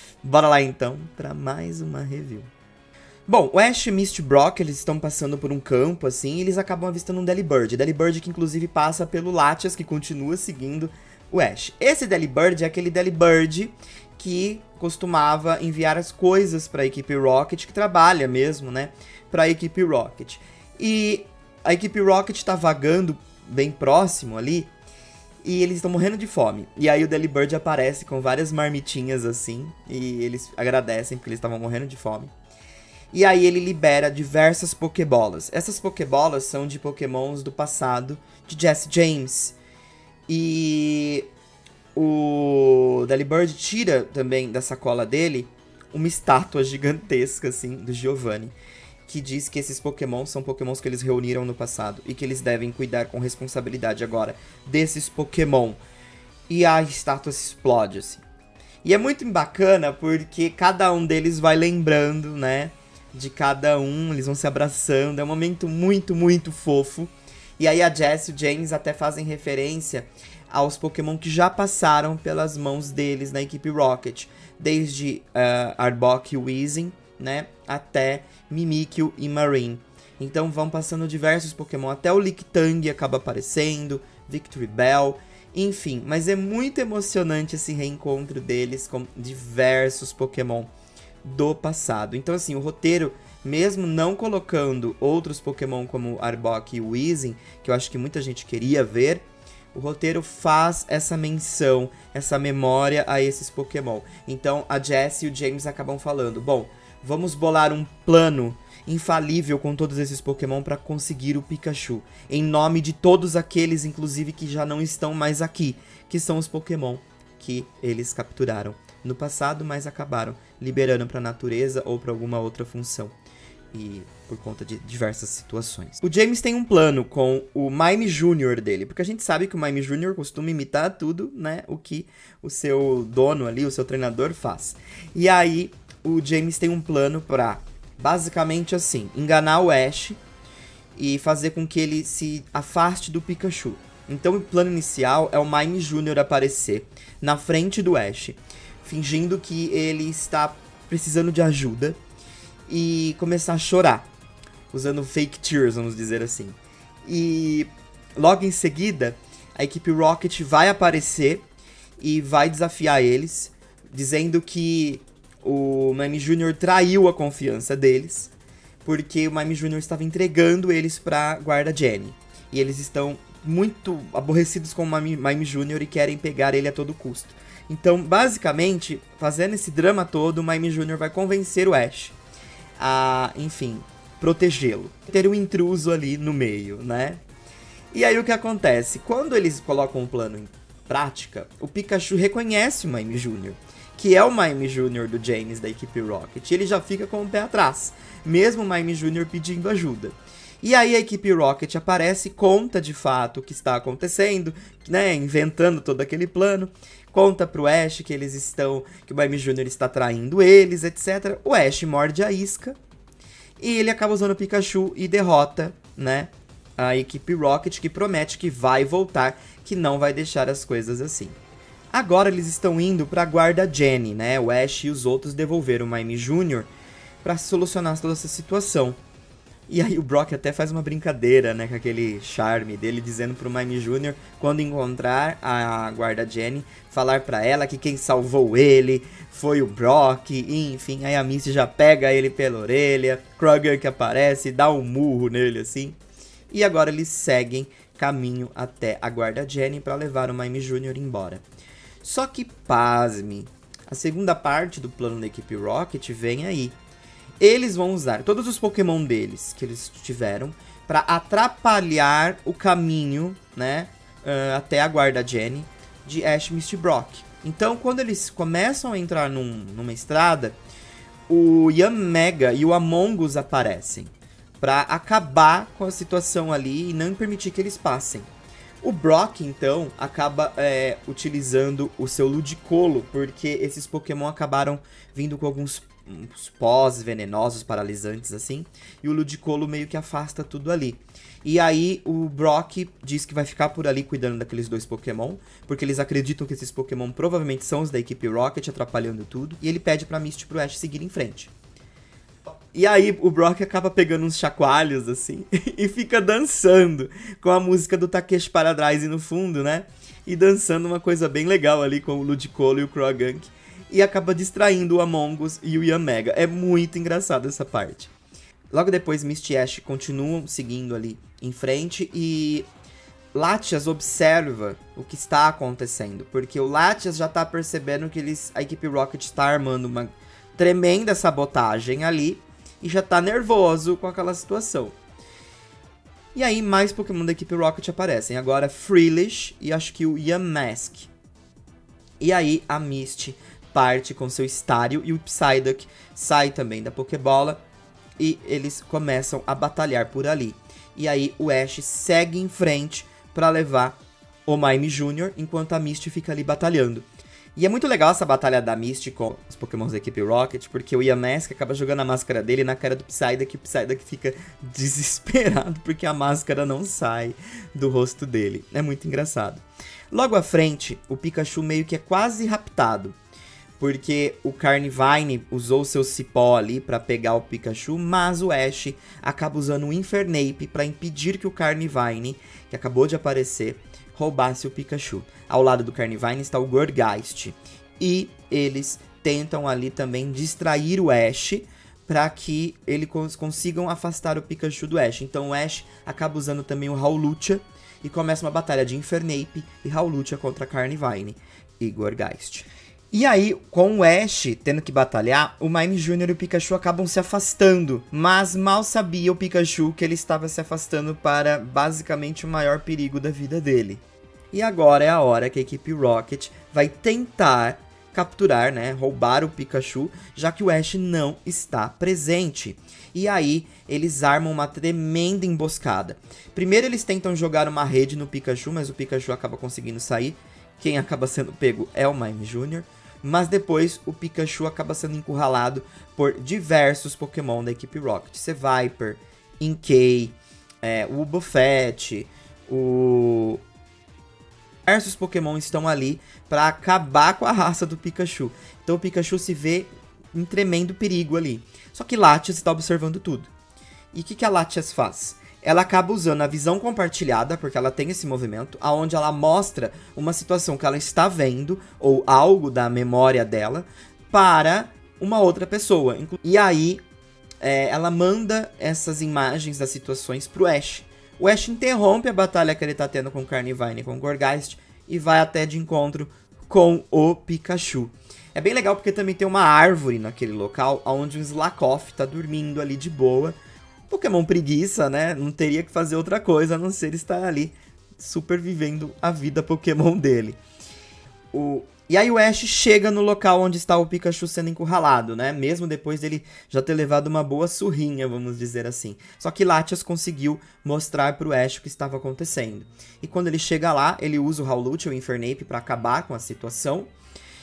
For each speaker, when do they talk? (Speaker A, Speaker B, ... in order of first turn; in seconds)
Speaker A: 0.2-2.5, 3.3-24.7, 25.4-32.3, 33.1-39.5, 40.3-41.3, 41.9-48.5, 49.0-55.8, 56.5-58.2, 58.8-90.7, 91.2-123.2, 123.7-140.2, 140.9-152.0, 152.7-154.1, 154.7-161.5, 162.0-168.3, 168.8-182.2, 182.8-187.2, 187.9-212.8, 213.6-221.4, 221.9-226.7, 227.2-229.0, 229.7-246.0, 246.5-251.4, 252.0-256.8, 257.4-270.6, 271.3-278.3, 278.8-301.5, 302.7-318.1, 318.7-322.7, 323.3-335.0, 336.3-341.1, 342.2-347.6, 348.2-373.2, 373.8-443.6, 444.9-453.5, 454.1-467.0, 467.6-483.6, 484.1-490.6, 491.5-507.1